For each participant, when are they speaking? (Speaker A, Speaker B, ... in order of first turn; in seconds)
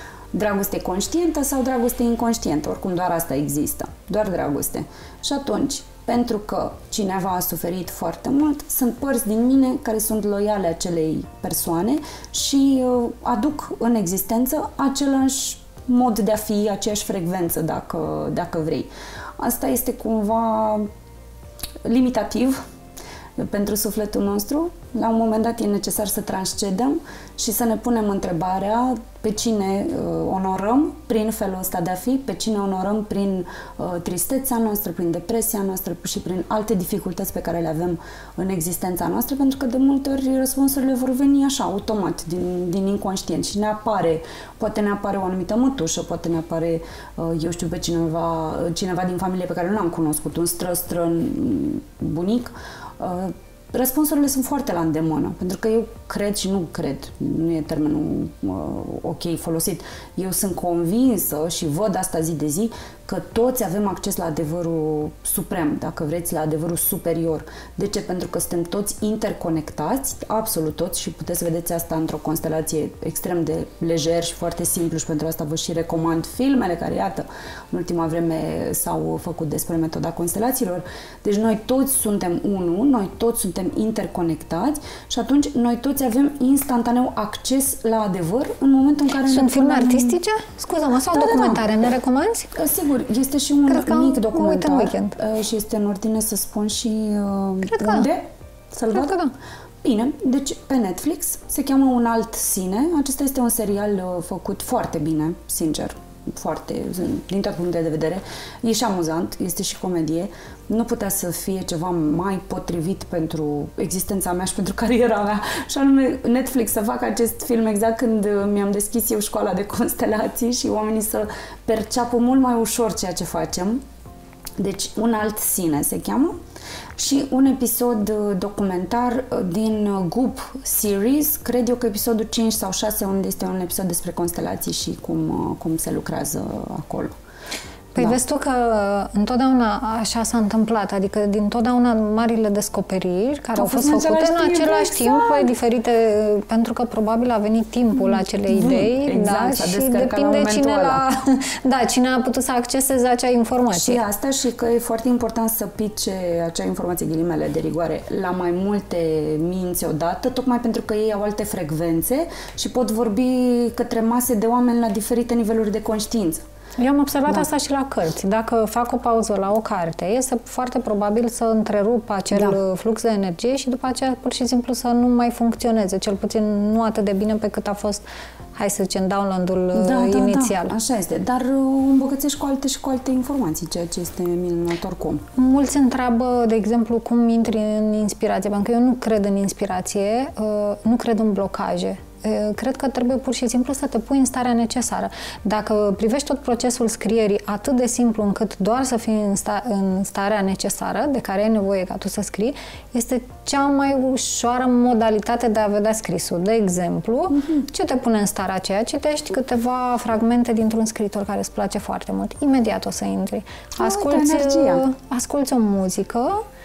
Speaker A: 0.3-20.9, 21.9-22.6, 23.4-90.2, 91.1-91.7, 92.6-99.2, 99.8-123.8, 124.6-126.4, 127.0-137.1, 143.6-145.5, 148.0-151.0, 153.8-166.4, 172.3-172.6, 179.7-185.2, 207.3-207.7, 213.8-214.9
Speaker B: 89.3-92.5, 93.7-95.2, 97.7-98.1, 98.9-99.3, 137.9-154.0, 166.8-178.0, 178.6-180.8, 185.4-216.4